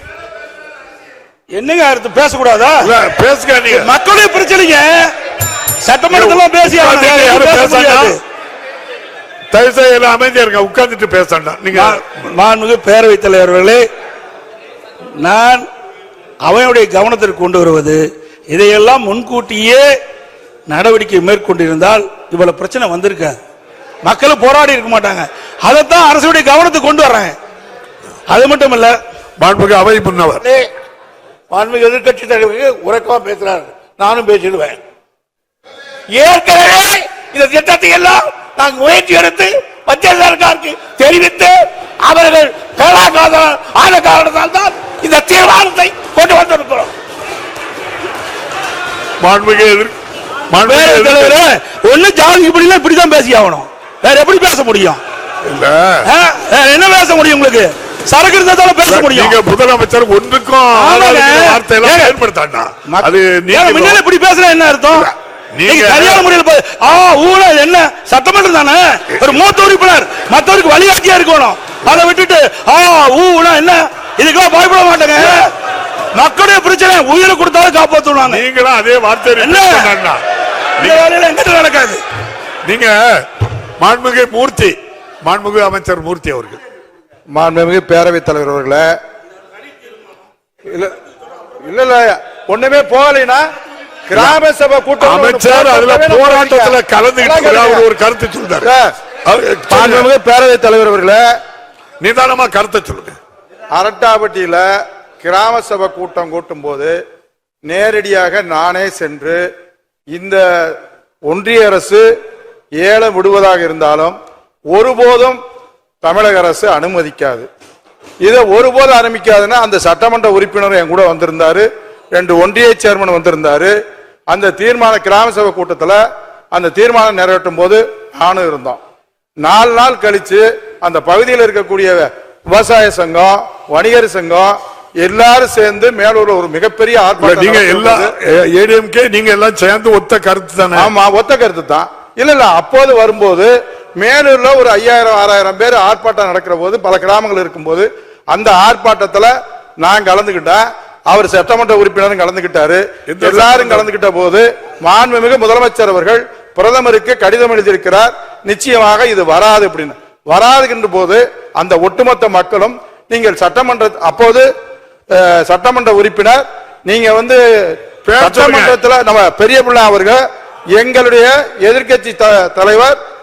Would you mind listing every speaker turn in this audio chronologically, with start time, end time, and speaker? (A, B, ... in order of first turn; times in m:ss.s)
0:01.5-0:02.9 A
0:02.8-0:03.9 B
0:03.7-0:05.1 A
0:05.8-0:08.2 A
0:06.1-0:08.2 B
0:09.5-0:12.3 B
0:11.7-0:13.8 A
0:15.2-0:15.7 A
0:16.5-0:19.9 A
0:20.7-0:23.4 A
0:24.0-0:27.4 A
0:28.3-0:29.0 A
0:29.4-0:30.4 B
0:30.4-0:30.7 C
0:31.5-0:34.8 C
0:36.2-0:46.9 C
0:49.2-0:49.9 B
0:50.5-0:51.4 B
0:50.6-0:55.0 A
0:55.4-0:56.1 B
0:56.0-0:59.4 A
0:58.9-1:04.0 B
1:00.7-1:02.2 A
1:02.9-1:05.1 A
1:04.9-1:06.3 B
1:05.7-1:15.5 A
1:16.2-1:18.4 A
1:18.2-1:20.2 B
1:19.4-1:19.9 A
1:20.8-1:21.0 B
1:20.8-1:22.0 A
1:22.6-1:23.0 B
1:23.8-1:26.6 B
1:27.3-1:28.9 D
1:30.7-1:31.0 D
1:31.6-1:33.4 D
1:34.1-1:37.9 D
1:34.1-1:34.4 B
1:35.0-1:38.7 B
1:38.6-1:38.9 D
1:39.2-1:40.1 B
1:39.7-1:41.2 D
1:42.0-1:43.2 B
1:43.7-1:44.6 D
1:45.2-1:47.0 D
1:47.6-1:49.4 D
1:50.1-1:50.8 D
1:51.3-1:52.0 D
1:52.8-1:54.2 D
1:54.7-1:55.4 D
1:56.0-1:57.5 D
1:58.2-2:03.7 D
2:04.3-2:06.0 D
2:06.5-2:08.8 D
2:09.4-2:18.1 D
2:17.2-2:20.9 B
2:20.8-2:44.5 D
2:33.1-2:33.9 B
2:45.1-2:50.2 D
2:48.1-2:48.8 B
2:50.8-2:53.0 D